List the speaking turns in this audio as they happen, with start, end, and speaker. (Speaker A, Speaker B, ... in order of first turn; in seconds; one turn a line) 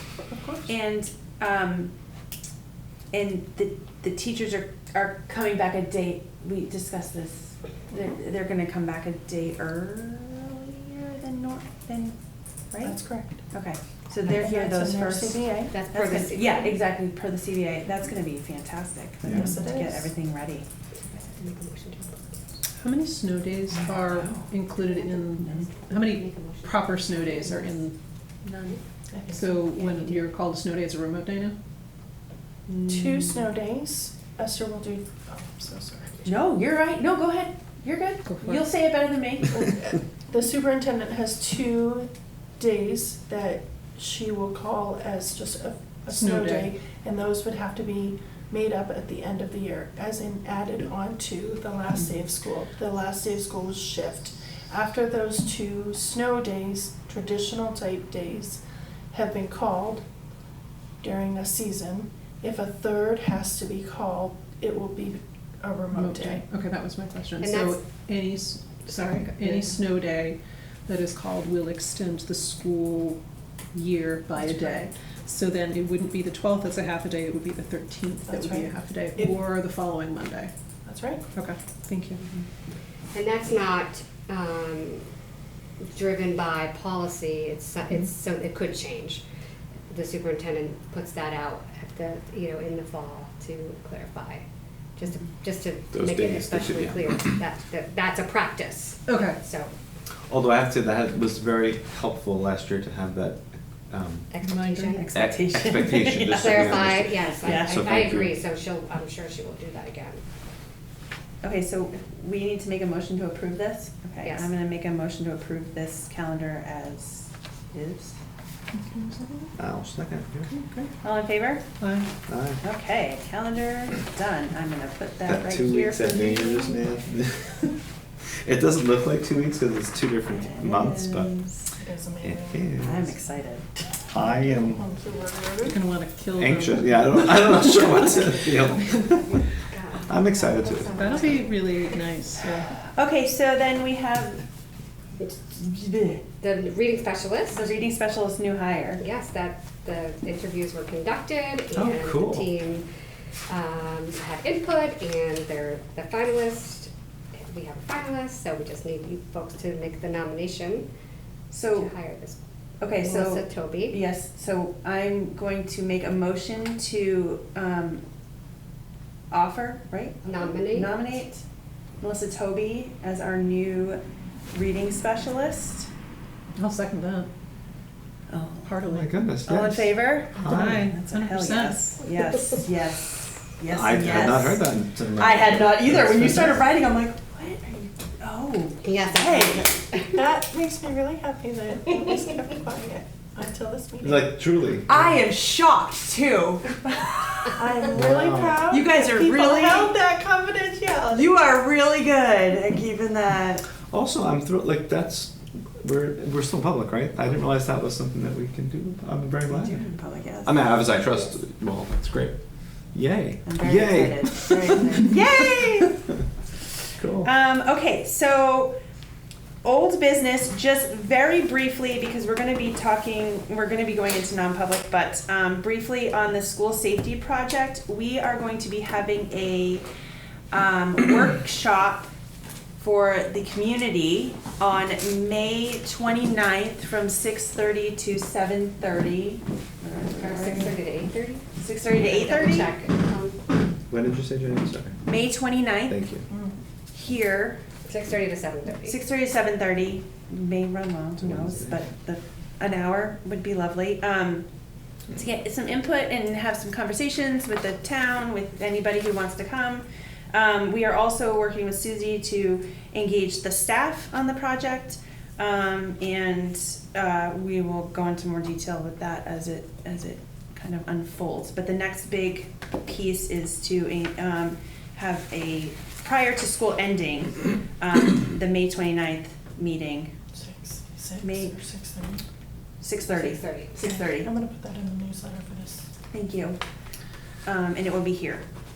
Speaker A: 0.3-0.7
Speaker B: 0.7-1.9
Speaker B: 3.1-12.2
Speaker A: 12.8-13.4
Speaker B: 13.5-20.7
Speaker A: 14.2-15.7
Speaker C: 15.7-16.8
Speaker D: 19.2-19.5
Speaker A: 19.3-20.1
Speaker C: 21.0-22.4
Speaker E: 22.8-27.9
Speaker B: 23.9-24.5
Speaker C: 24.8-27.8
Speaker B: 25.4-25.9
Speaker B: 28.4-28.8
Speaker A: 29.1-29.6
Speaker E: 29.3-31.6
Speaker C: 29.8-30.2
Speaker B: 32.7-33.5
Speaker A: 32.9-36.3
Speaker B: 36.2-39.6
Speaker E: 38.2-38.7
Speaker A: 39.5-58.6
Speaker E: 46.1-46.7
Speaker A: 59.1-60.0
Speaker A: 61.0-66.4
Speaker E: 65.9-73.2
Speaker C: 67.4-67.8
Speaker E: 73.7-80.5
Speaker A: 74.4-74.8
Speaker A: 78.3-79.3
Speaker A: 80.8-81.2
Speaker E: 81.3-82.2
Speaker C: 83.1-85.1
Speaker C: 85.8-89.2
Speaker C: 89.9-94.5
Speaker C: 95.0-99.7
Speaker D: 95.9-97.2
Speaker E: 99.1-99.4
Speaker D: 100.3-104.3
Speaker C: 104.3-105.2
Speaker E: 104.4-105.1
Speaker B: 104.8-108.0
Speaker D: 105.1-108.4
Speaker C: 106.3-110.2
Speaker B: 111.4-118.2
Speaker C: 114.2-114.5
Speaker E: 118.8-119.5
Speaker D: 119.6-120.9
Speaker B: 121.0-121.7
Speaker E: 121.8-122.1
Speaker D: 122.3-122.6
Speaker B: 122.6-126.8
Speaker D: 125.3-127.7
Speaker D: 128.4-131.3
Speaker B: 130.3-131.7
Speaker A: 131.8-132.9
Speaker D: 132.2-133.1
Speaker B: 132.8-133.7
Speaker D: 134.1-134.8
Speaker A: 134.1-135.8
Speaker E: 135.6-138.5
Speaker D: 136.4-139.2
Speaker C: 138.8-141.6
Speaker D: 140.1-141.0
Speaker E: 140.9-142.8
Speaker B: 142.8-144.4
Speaker B: 145.2-146.3
Speaker C: 146.4-147.8
Speaker B: 147.5-149.0
Speaker C: 149.0-152.9
Speaker D: 151.7-152.5
Speaker C: 153.5-160.9
Speaker B: 161.5-161.9
Speaker C: 161.7-162.4
Speaker B: 162.8-168.0
Speaker C: 162.9-164.0
Speaker B: 169.3-171.4
Speaker C: 170.2-171.0
Speaker B: 172.0-174.0
Speaker B: 174.5-175.9
Speaker E: 176.5-177.3
Speaker B: 178.3-178.8
Speaker E: 178.6-179.4
Speaker D: 178.9-180.9
Speaker B: 179.4-189.7
Speaker E: 180.3-182.0
Speaker D: 183.7-186.8
Speaker C: 188.8-190.2
Speaker A: 189.9-194.3
Speaker D: 194.0-195.2
Speaker B: 194.9-197.6
Speaker A: 197.5-201.3
Speaker D: 197.9-198.8
Speaker B: 198.7-199.9
Speaker B: 201.1-203.7
Speaker D: 203.9-209.9
Speaker B: 209.5-211.0
Speaker D: 210.4-212.4
Speaker D: 212.9-215.3
Speaker B: 213.4-216.1
Speaker D: 217.0-217.3
Speaker B: 217.2-218.8
Speaker B: 219.6-229.9
Speaker B: 230.5-232.1
Speaker B: 232.8-240.8
Speaker C: 240.2-243.4
Speaker B: 241.6-242.7
Speaker D: 243.9-245.0
Speaker B: 245.1-246.0
Speaker D: 245.9-246.3
Speaker A: 246.3-246.6
Speaker B: 246.9-247.6
Speaker C: 247.8-249.0
Speaker B: 248.8-254.5
Speaker D: 251.2-251.9
Speaker B: 255.1-280.1
Speaker A: 280.3-282.2
Speaker B: 281.2-281.6
Speaker B: 282.8-284.3
Speaker C: 283.1-283.8
Speaker A: 283.8-285.9
Speaker B: 286.1-286.6
Speaker B: 287.4-288.4